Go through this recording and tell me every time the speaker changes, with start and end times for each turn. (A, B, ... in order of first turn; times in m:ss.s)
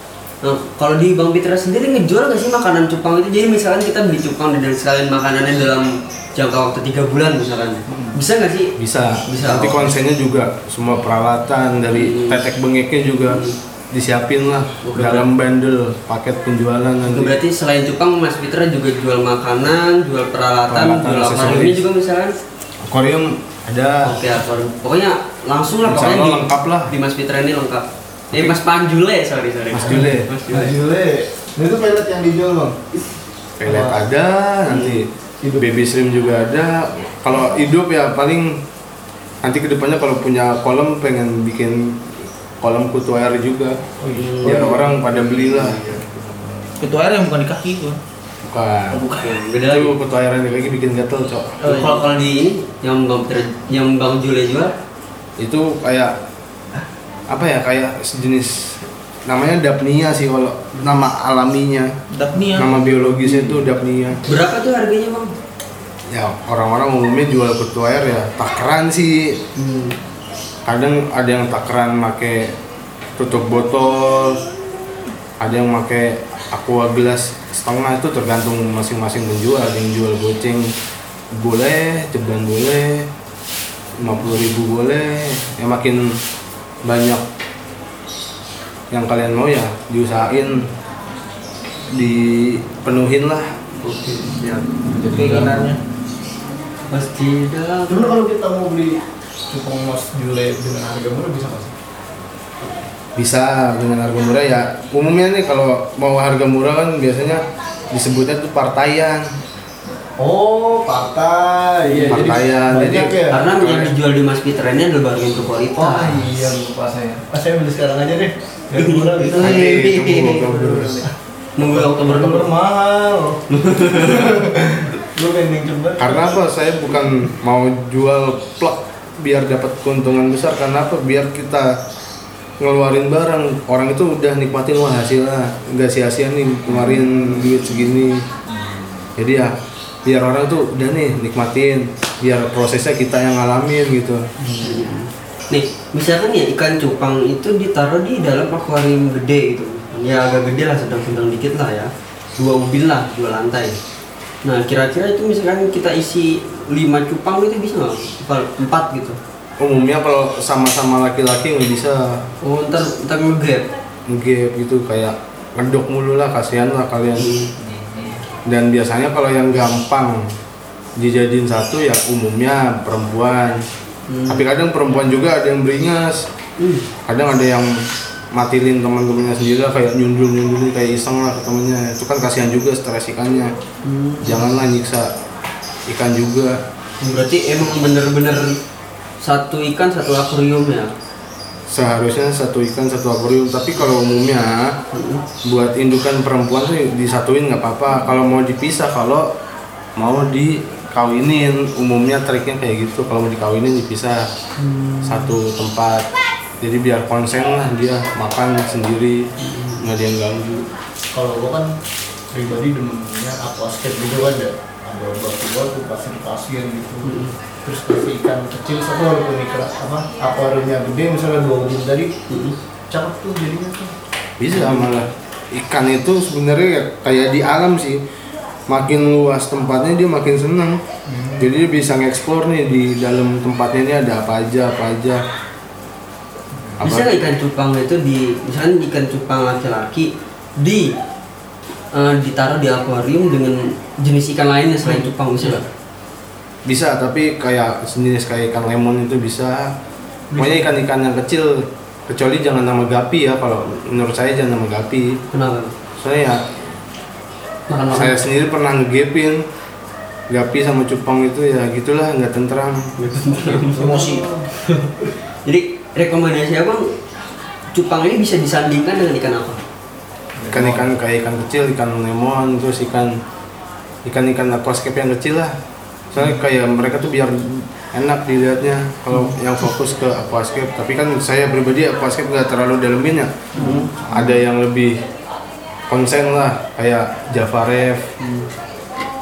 0:00.4-0:08.7 A
0:07.9-0:08.2 B
0:08.8-0:17.4 C
0:09.3-0:09.9 A
0:11.9-0:12.4 A
0:13.3-0:13.6 A
0:14.8-0:15.3 A
0:17.1-0:22.3 A
0:20.7-0:21.8 C
0:22.9-0:24.1 C
0:24.0-0:30.7 A
0:25.8-0:26.9 C
0:28.3-0:28.6 C
0:29.7-0:30.3 C
0:29.8-0:33.0 B
0:33.6-0:38.6 C
0:33.6-0:34.0 B
0:35.4-0:35.8 B
0:39.4-0:43.8 C
0:44.0-0:46.9 B
0:44.2-0:44.9 A
0:44.4-0:45.8 C
0:46.8-0:48.0 D
0:48.4-0:49.0 C
0:48.9-0:49.4 D
0:49.1-0:50.0 A
0:49.6-0:51.6 C
0:51.6-0:52.0 D
0:51.6-0:54.7 A
0:55.4-0:56.1 C
0:57.3-1:01.9 C
1:02.1-1:02.9 D
1:02.5-1:04.2 C
1:04.2-1:05.3 A
1:06.1-1:09.4 C
1:09.6-1:10.0 A
1:10.6-1:12.5 C
1:13.2-1:14.4 C
1:15.4-1:20.7 C
1:21.3-1:23.1 C
1:24.0-1:26.2 C
1:26.8-1:27.2 C
1:28.9-1:30.7 C
1:31.9-1:33.5 C
1:33.8-1:34.6 A
1:34.8-1:35.7 B
1:35.1-1:35.8 D
1:36.9-1:38.1 A
1:37.9-1:41.8 B
1:43.2-1:49.3 C
1:50.2-1:53.7 B
1:51.8-1:52.3 A
1:52.1-1:53.9 C
1:53.3-1:56.3 A
1:55.8-2:07.2 B
1:58.8-2:00.8 A
1:59.4-2:01.0 C
2:01.6-2:02.5 A
2:03.5-2:04.4 A
2:06.0-2:11.8 C
2:12.6-2:18.2 C
2:16.7-2:17.9 B
2:18.5-2:19.1 B
2:19.2-2:19.5 C
2:20.0-2:24.2 C
2:24.4-2:24.8 B
2:24.6-2:33.8 A
2:34.4-2:39.2 A
2:39.6-2:42.2 C
2:42.4-2:43.7 A
2:44.1-2:47.3 C
2:47.2-2:47.5 A
2:47.6-2:48.2 B
2:48.4-2:50.3 C
2:51.0-2:53.6 C
2:54.1-2:54.4 A
2:54.3-2:56.3 C
2:56.6-2:56.9 A
2:57.0-3:03.5 C
3:03.8-3:04.4 A
3:04.2-3:05.1 C
3:05.9-3:06.6 C
3:07.0-3:08.6 A
3:09.2-3:10.9 A
3:11.7-3:14.8 C
3:14.9-3:15.2 A
3:15.4-3:19.3 C
3:20.0-3:24.3 C
3:24.6-3:25.3 A
3:25.0-3:26.1 C
3:26.6-3:30.7 C
3:29.4-3:29.8 A
3:31.1-3:31.7 B
3:32.3-3:42.1 B
3:37.0-3:37.3 A
3:42.3-3:42.6 A
3:42.9-3:43.9 B
3:44.4-3:48.0 C
3:44.5-3:44.9 B
3:48.7-3:50.8 C
3:51.1-3:51.6 B
3:51.4-3:55.2 C
3:56.8-3:57.1 C
3:56.8-4:01.0 A
4:01.9-4:05.6 A
4:06.6-4:09.7 C
4:10.3-4:10.7 A
4:10.4-4:15.2 C
4:15.3-4:15.7 A
4:16.0-4:16.4 C
4:17.7-4:18.2 A
4:17.9-4:19.4 C
4:20.3-4:22.9 C
4:23.0-4:24.0 A
4:23.7-4:24.5 B
4:23.7-4:24.3 D
4:24.6-4:26.9 A
4:27.7-4:29.6 A
4:30.4-4:30.9 B
4:30.5-4:33.2 C
4:34.0-4:35.6 C
4:36.1-4:43.3 C
4:43.5-4:44.4 B
4:43.6-4:43.9 A
4:44.1-4:45.0 C
4:45.9-4:48.1 C
4:48.2-4:48.5 A